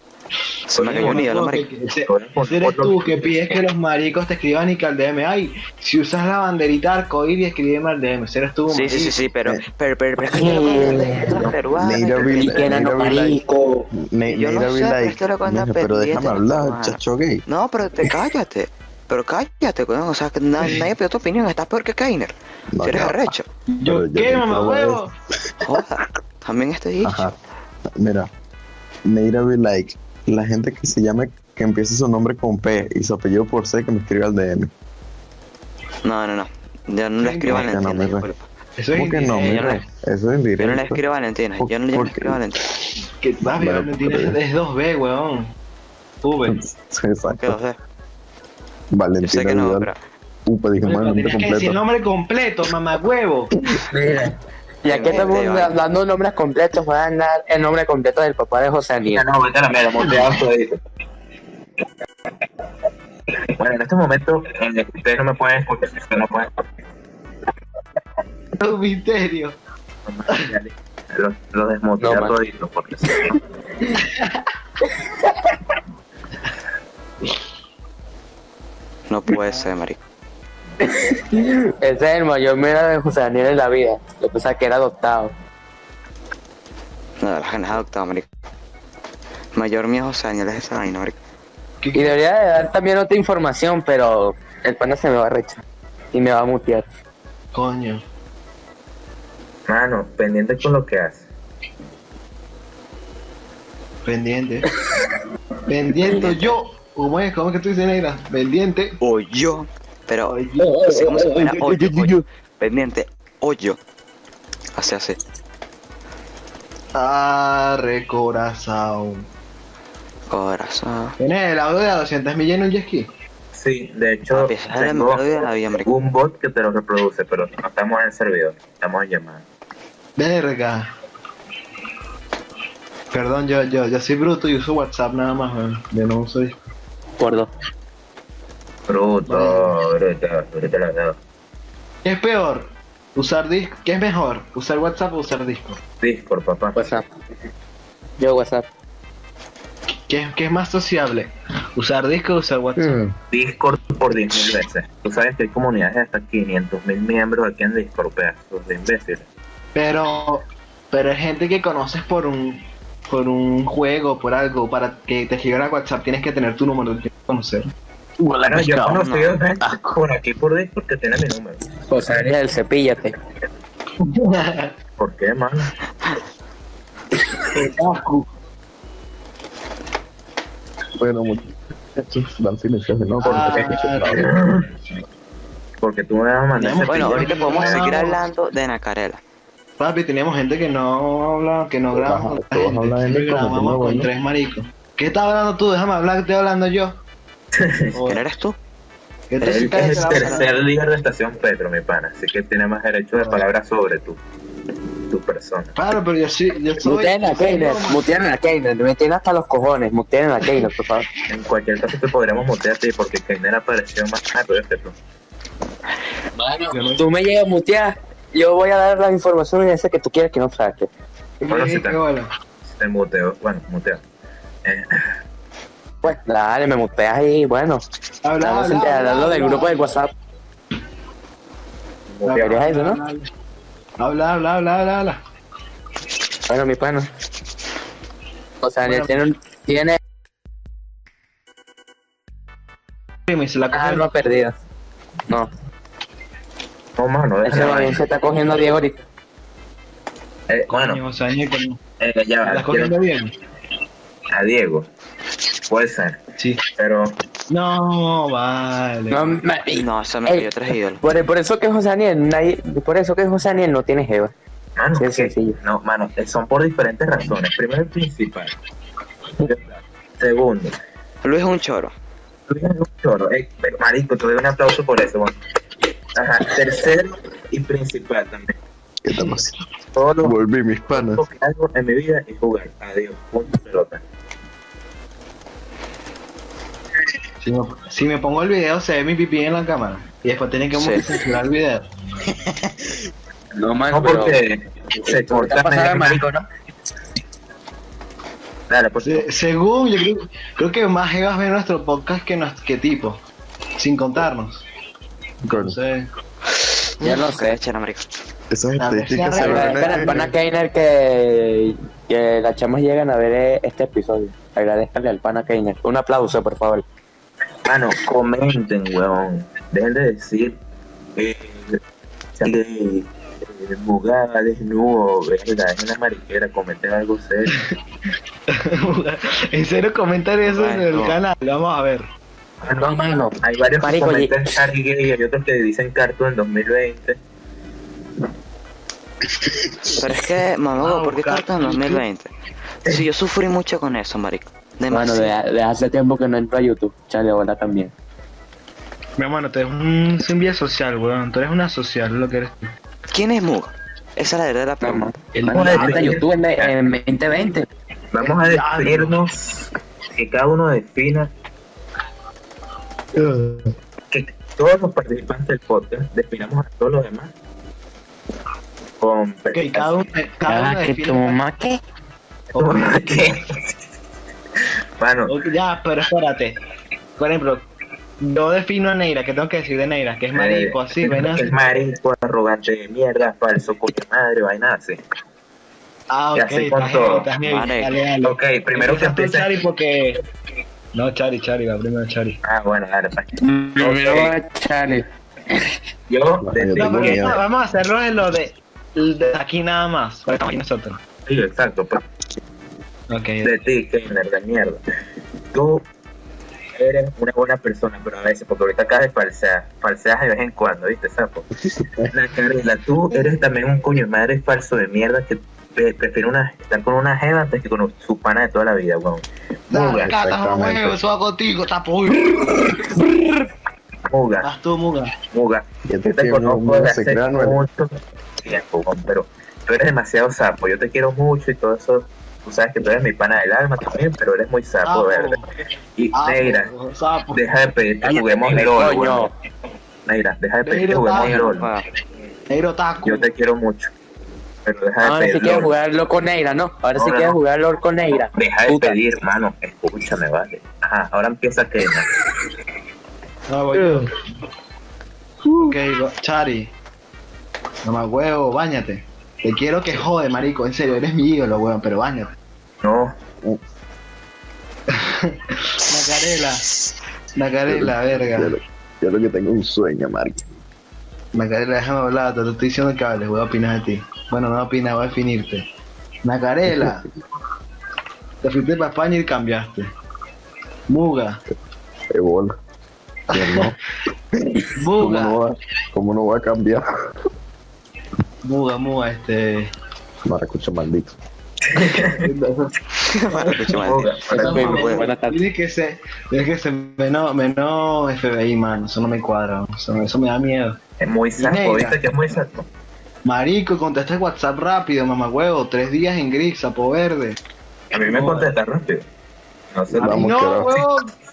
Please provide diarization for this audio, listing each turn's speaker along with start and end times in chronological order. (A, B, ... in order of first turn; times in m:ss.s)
0:00.7-0:01.6 A
0:00.8-0:01.3 B
0:00.9-0:09.2 C
0:02.0-0:03.6 B
0:08.7-0:12.8 A
0:10.2-0:11.5 D
0:11.8-0:13.4 E
0:12.4-0:13.9 D
0:13.9-0:17.4 E
0:14.3-0:23.4 A
0:22.7-0:25.7 E
0:23.8-0:25.1 C
0:25.6-0:27.3 A
0:27.0-0:27.4 E
0:27.9-0:28.3 E
0:29.0-0:34.7 E
0:36.0-0:38.4 A
0:37.2-0:37.8 C
0:37.5-0:38.3 E
0:38.8-0:39.8 C
0:38.9-0:41.0 E
0:39.3-0:39.8 A
0:40.6-0:42.6 A
0:41.6-0:42.4 E
0:43.2-0:45.5 C
0:43.5-0:44.4 E
0:46.2-0:46.6 C
0:46.5-0:47.6 E
0:47.3-0:47.8 A
0:48.9-0:49.9 E
0:49.2-0:50.0 A
0:50.4-0:51.8 E
0:50.8-0:53.5 C
0:53.9-0:59.2 D
0:54.9-0:55.8 A
0:59.1-1:00.8 B
1:03.6-1:06.6 B
1:08.6-1:09.6 C
1:10.0-1:13.4 B
1:12.0-1:12.3 D
1:14.0-1:14.4 C
1:15.0-1:15.5 D
1:19.1-1:20.0 A
1:20.8-1:25.3 D
1:27.2-1:28.2 A
1:29.5-1:31.2 A
1:31.8-1:32.2 C
1:31.9-1:35.6 D
1:36.1-1:36.9 D
1:37.5-1:38.0 C
1:39.7-1:41.2 B
1:44.0-1:44.7 C
1:45.7-1:49.0 C
1:46.0-1:46.3 D
1:49.0-1:53.8 A
1:50.2-1:50.8 C
1:50.6-1:52.2 D
1:54.7-1:55.2 A
1:56.9-1:59.2 C
2:00.3-2:01.1 A
2:01.2-2:03.1 C
2:03.5-2:05.2 B
2:04.3-2:05.9 A
2:05.8-2:09.4 B
2:10.2-2:10.9 C
2:13.1-2:16.6 C
2:17.2-2:17.5 D
2:18.9-2:21.2 B
2:19.2-2:19.8 C
2:22.0-2:25.8 C
2:26.0-2:26.9 B
2:26.7-2:27.0 D
2:28.2-2:28.6 D
2:30.1-2:33.0 C
2:32.8-2:33.1 D
2:33.3-2:39.2 B
2:39.7-2:47.7 C
2:48.2-2:49.0 D
2:48.4-2:51.6 B
2:49.0-2:49.4 A
2:51.9-2:53.1 D
2:54.0-2:54.7 C
2:55.0-2:55.7 B
2:57.5-2:58.2 C
3:01.0-3:04.3 E
3:03.2-3:04.4 C
3:03.3-3:04.7 B
3:05.8-3:07.9 B
3:06.6-3:08.2 C
3:06.9-3:09.2 A
3:09.8-3:17.0 C
3:11.9-3:14.1 E
3:17.5-3:18.0 B
3:17.9-3:18.2 C
3:18.0-3:18.6 A
3:19.3-3:20.6 C
3:19.4-3:20.4 A
3:19.4-3:24.2 B
3:23.1-3:23.4 C
3:25.1-3:25.7 B
3:25.8-3:28.0 C
3:26.8-3:31.1 D
3:31.3-3:35.0 B
3:36.4-3:40.9 D
3:36.7-3:37.0 C
3:41.4-3:42.3 C
3:41.5-3:42.0 B
3:42.6-3:44.0 B
3:44.6-3:45.1 B
3:46.0-3:47.8 D
3:48.2-3:49.9 C
3:48.4-3:50.1 D
3:52.1-3:52.5 B
3:52.2-3:53.2 C
3:52.3-3:53.0 D
3:54.0-3:55.2 C
3:56.5-3:57.1 D
3:58.6-4:00.0 D
3:58.8-3:59.2 C
4:03.3-4:04.1 C
4:03.7-4:04.5 D
4:07.0-4:08.0 B
4:07.4-4:09.0 D
4:10.5-4:11.0 B
4:10.7-4:11.8 C
4:12.0-4:12.9 B
4:12.4-4:13.3 C
4:14.3-4:14.9 B
4:15.7-4:16.2 B
4:16.4-4:16.6 C
4:16.8-4:17.2 B
4:17.5-4:19.3 C
4:19.1-4:20.5 D
4:19.8-4:21.0 A
4:21.0-4:24.3 D
4:24.8-4:28.5 B
4:25.0-4:25.6 D
4:29.4-4:30.8 B
4:31.2-4:31.9 A
4:32.5-4:35.4 B
4:36.1-4:38.5 B
4:39.0-4:39.6 E
4:39.9-4:40.3 B
4:40.2-4:41.2 E
4:40.9-4:44.0 B
4:47.4-4:51.8 C
4:50.7-4:51.0 A
4:52.3-4:53.0 E
4:53.6-4:54.4 D
4:53.9-4:56.2 B
4:54.9-4:56.5 D
4:58.7-4:59.3 B
4:59.0-5:03.2 C
5:03.8-5:04.6 C
5:05.4-5:05.8 E
5:05.5-5:06.1 C
5:07.0-5:07.6 D
5:07.0-5:08.0 A
5:08.5-5:10.2 E
5:08.8-5:10.3 C
5:09.3-5:16.8 D
5:17.6-5:20.6 B
5:21.2-5:21.8 B
5:22.4-5:27.6 B
5:28.5-5:32.0 C
5:30.4-5:31.2 A
5:32.7-5:34.5 D
5:33.4-5:37.2 B
5:39.4-5:40.0 E
5:39.9-5:42.3 A
5:40.8-5:42.0 C
5:42.8-5:45.3 A
5:44.9-5:47.9 D
5:49.2-5:52.7 C
5:53.1-5:55.1 A
5:54.8-5:57.6 D
5:55.4-5:56.1 C
5:55.5-5:56.7 B
5:58.1-6:01.3 B
5:58.2-5:59.2 C
6:03.2-6:03.6 C
6:04.1-6:07.3 B
6:09.0-6:10.0 B
6:09.5-6:11.4 C
6:10.4-6:11.8 D
6:12.5-6:13.0 C
6:12.6-6:13.8 B
6:15.0-6:15.4 B
6:15.3-6:16.6 C
6:17.2-6:17.6 C
6:18.2-6:21.6 C
6:20.3-6:25.0 B
6:26.1-6:30.2 C
6:26.3-6:27.3 B
6:27.4-6:27.9 A
6:28.2-6:29.6 B
6:30.9-6:32.4 C
6:32.4-6:34.3 B
6:33.4-6:35.0 D
6:36.1-6:37.4 B
6:36.4-6:37.4 E
6:36.8-6:41.0 C
6:41.2-6:42.0 B
6:43.1-6:43.5 C
6:43.4-6:44.8 B
6:45.5-6:45.8 B
6:46.8-6:51.5 B
6:51.6-6:52.1 E
6:52.1-7:00.1 B
6:59.7-7:02.5 C
6:59.8-7:01.0 E
7:02.3-7:03.3 D
7:04.0-7:04.5 B
7:04.4-7:05.1 C
7:05.3-7:15.4 B
7:05.9-7:07.6 E
7:14.8-7:15.4 C
7:16.0-7:16.7 B
7:16.1-7:17.4 C
7:17.3-7:19.3 B
7:18.0-7:19.3 D
7:20.0-7:21.7 B
7:20.6-7:21.4 C
7:21.1-7:21.8 A
7:22.5-7:23.3 C
7:23.0-7:23.9 B
7:24.6-7:25.7 B
7:25.0-7:29.0 D
7:27.0-7:27.4 B
7:28.3-7:32.1 B
7:33.5-7:34.2 C
7:33.7-7:34.0 D
7:35.6-7:36.7 C
7:37.8-7:42.3 C
7:42.8-7:43.1 B
7:44.9-7:46.6 C
7:47.4-7:48.6 C
7:47.7-7:50.4 E
7:51.3-7:55.6 C
7:56.2-7:57.0 C
7:56.7-7:57.0 E
7:58.4-7:59.9 C
8:00.9-8:01.4 C
8:02.1-8:02.6 E
8:03.3-8:03.7 C
8:03.3-8:03.8 E
8:04.3-8:06.8 E
8:04.8-8:05.4 C
8:08.4-8:09.7 C
8:10.2-8:11.2 E
8:11.7-8:12.2 B
8:12.0-8:12.7 C
8:13.0-8:15.0 A
8:13.3-8:20.8 C
8:13.7-8:15.0 B
8:14.4-8:15.4 D
8:21.0-8:22.7 B
8:21.4-8:22.0 C
8:23.2-8:27.4 C
8:27.9-8:29.0 B
8:28.0-8:28.5 C
8:29.7-8:30.8 B
8:29.9-8:31.1 C
8:30.0-8:30.8 E